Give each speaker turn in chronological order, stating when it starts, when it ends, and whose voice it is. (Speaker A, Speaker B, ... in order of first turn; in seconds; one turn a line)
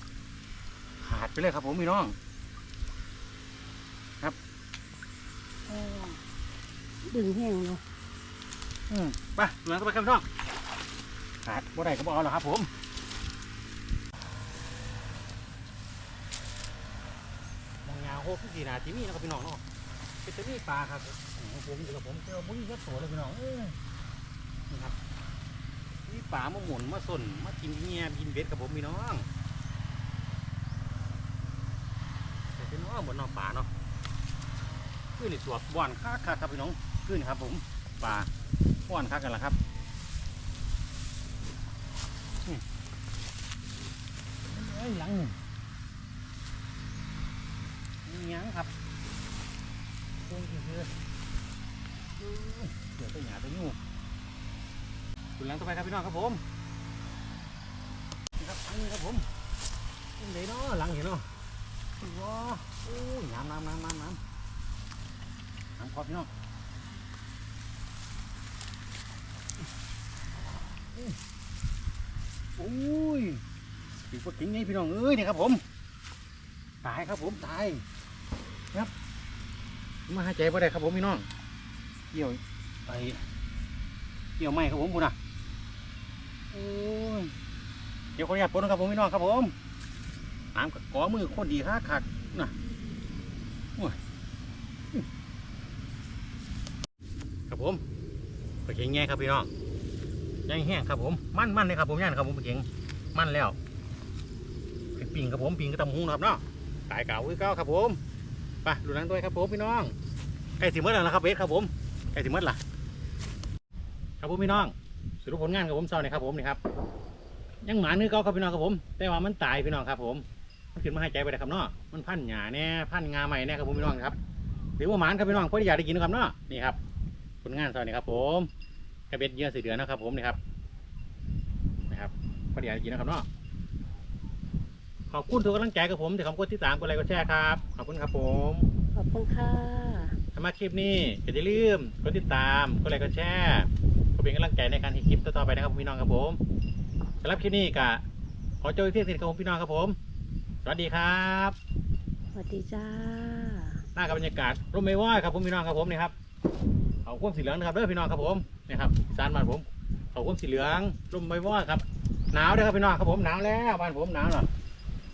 Speaker A: 1.0-2.2
Speaker A: 5.7-6.2
Speaker B: 7.0-7.8
Speaker A: 8.9-10.3
Speaker A: 11.4-12.7
Speaker A: 17.8-19.6
Speaker A: 20.2-23.8
Speaker A: 24.7-25.0
Speaker A: 26.1-29.3
Speaker A: 32.5-33.7
Speaker A: 35.2-38.3
Speaker A: 38.9-39.6
Speaker A: 44.4-45.4
Speaker A: 48.0-48.7
Speaker A: 50.2-50.9
Speaker A: 52.2-53.8
Speaker A: 55.4-56.4
Speaker A: 58.4-59.3
Speaker A: 60.2-61.3
Speaker A: 62.0-64.2
Speaker A: 65.8-66.3
Speaker A: 72.6-73.4
Speaker A: 74.1-75.6
Speaker A: 76.8-77.9
Speaker A: 80.1-81.3
Speaker A: 82.1-83.2
Speaker A: 84.4-85.2
Speaker A: 86.5-87.3
Speaker A: 88.2-89.5
Speaker A: 90.5-92.5
Speaker A: 97.5-97.8
Speaker A: 98.6-99.5
Speaker A: 100.5-103.6
Speaker A: 105.0-108.0
Speaker A: 108.6-110.0
Speaker A: 110.6-112.6
Speaker A: 114.2-116.6
Speaker A: 117.6-124.2
Speaker A: 124.8-126.8
Speaker A: 127.4-128.5
Speaker A: 129.1-130.4
Speaker A: 131.9-133.3
Speaker A: 135.1-138.7
Speaker B: 138.9-140.2
Speaker A: 140.3-146.4
Speaker A: 147.2-148.1
Speaker A: 148.6-150.0
Speaker A: 150.6-151.6
Speaker B: 152.3-153.8
Speaker A: 153.9-156.1
Speaker A: 157.1-164.5